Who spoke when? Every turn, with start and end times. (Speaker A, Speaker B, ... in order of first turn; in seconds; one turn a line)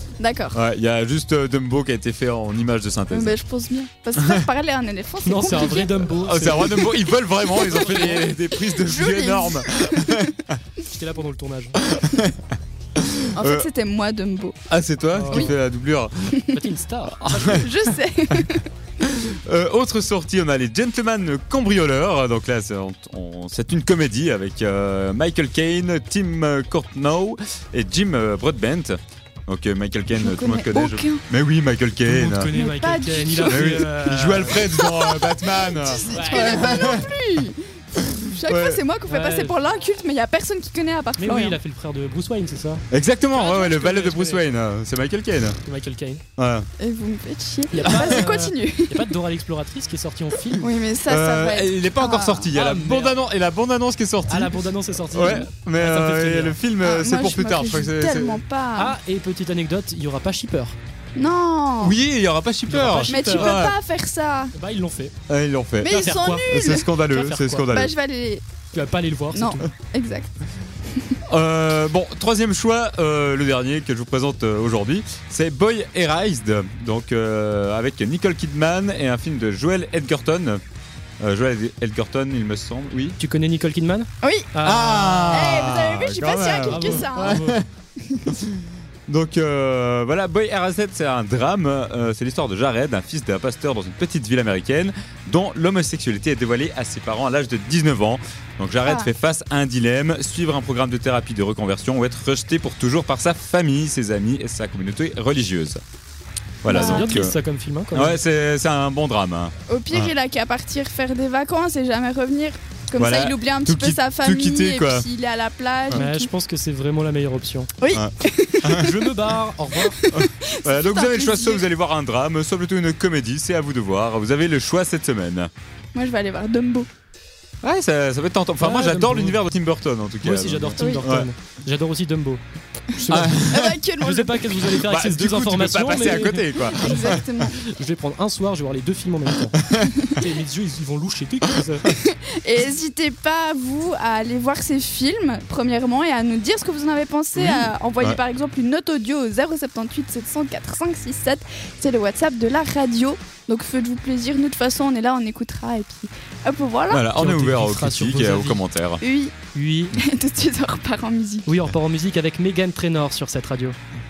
Speaker A: 0.2-0.6
Speaker B: 0.5-3.4
Speaker A: 3.1-5.9
Speaker B: 4.2-4.5
Speaker C: 5.2-7.0
Speaker B: 6.1-10.6
Speaker A: 7.5-10.3
Speaker C: 7.6-8.2
Speaker C: 10.8-11.8
Speaker B: 11.8-13.7
Speaker A: 13.3-14.6
Speaker B: 14.7-16.4
Speaker C: 15.1-15.5
Speaker C: 16.5-17.7
Speaker B: 17.1-17.7
Speaker A: 17.5-18.7
Speaker B: 19.0-28.9
Speaker B: 29.5-32.5
Speaker A: 30.1-31.2
Speaker C: 32.0-34.7
Speaker A: 32.5-33.8
Speaker B: 33.5-37.1
Speaker A: 34.5-41.6
Speaker C: 36.1-36.6
Speaker B: 38.0-38.8
Speaker C: 39.1-39.6
Speaker C: 41.2-44.5
Speaker B: 42.9-45.6
Speaker C: 45.6-46.2
Speaker B: 46.4-46.7
Speaker A: 46.8-49.1
Speaker C: 47.7-50.7
Speaker B: 47.8-48.2
Speaker A: 50.5-52.5
Speaker B: 51.0-54.5
Speaker C: 52.5-53.2
Speaker C: 54.3-56.6
Speaker B: 55.1-58.4
Speaker A: 56.8-58.9
Speaker C: 58.7-60.8
Speaker A: 61.1-62.0
Speaker B: 61.8-63.7
Speaker C: 62.7-63.6
Speaker A: 63.0-64.5
Speaker C: 64.5-65.1
Speaker B: 65.3-67.9
Speaker A: 65.8-66.9
Speaker C: 65.9-67.7
Speaker A: 67.7-68.4
Speaker C: 68.7-69.7
Speaker A: 69.3-70.3
Speaker B: 71.3-80.6
Speaker B: 81.2-83.2
Speaker C: 83.2-85.5
Speaker A: 84.2-84.5
Speaker B: 84.6-87.7
Speaker A: 85.3-87.4
Speaker C: 86.7-87.6
Speaker B: 88.3-105.8
Speaker A: 98.8-99.1
Speaker B: 106.6-107.3
Speaker A: 106.7-107.2
Speaker C: 106.7-108.2
Speaker B: 107.9-110.1
Speaker A: 109.7-116.3
Speaker B: 113.0-115.0
Speaker C: 115.9-117.7
Speaker A: 117.8-118.9
Speaker B: 117.9-119.0
Speaker C: 118.8-120.0
Speaker A: 119.9-121.7
Speaker B: 120.1-125.5
Speaker A: 125.9-126.9
Speaker B: 127.6-131.3
Speaker C: 128.6-129.4
Speaker C: 130.2-141.9
Speaker A: 130.8-131.1
Speaker B: 133.1-133.8
Speaker A: 133.3-134.7
Speaker B: 134.7-137.2
Speaker A: 136.7-137.6
Speaker B: 139.6-140.0
Speaker A: 139.9-140.2
Speaker A: 141.9-157.0
Speaker B: 147.3-148.2
Speaker B: 156.9-159.0
Speaker C: 157.1-158.6
Speaker A: 159.0-159.3
Speaker C: 159.5-160.0
Speaker A: 159.9-161.5
Speaker C: 161.4-163.8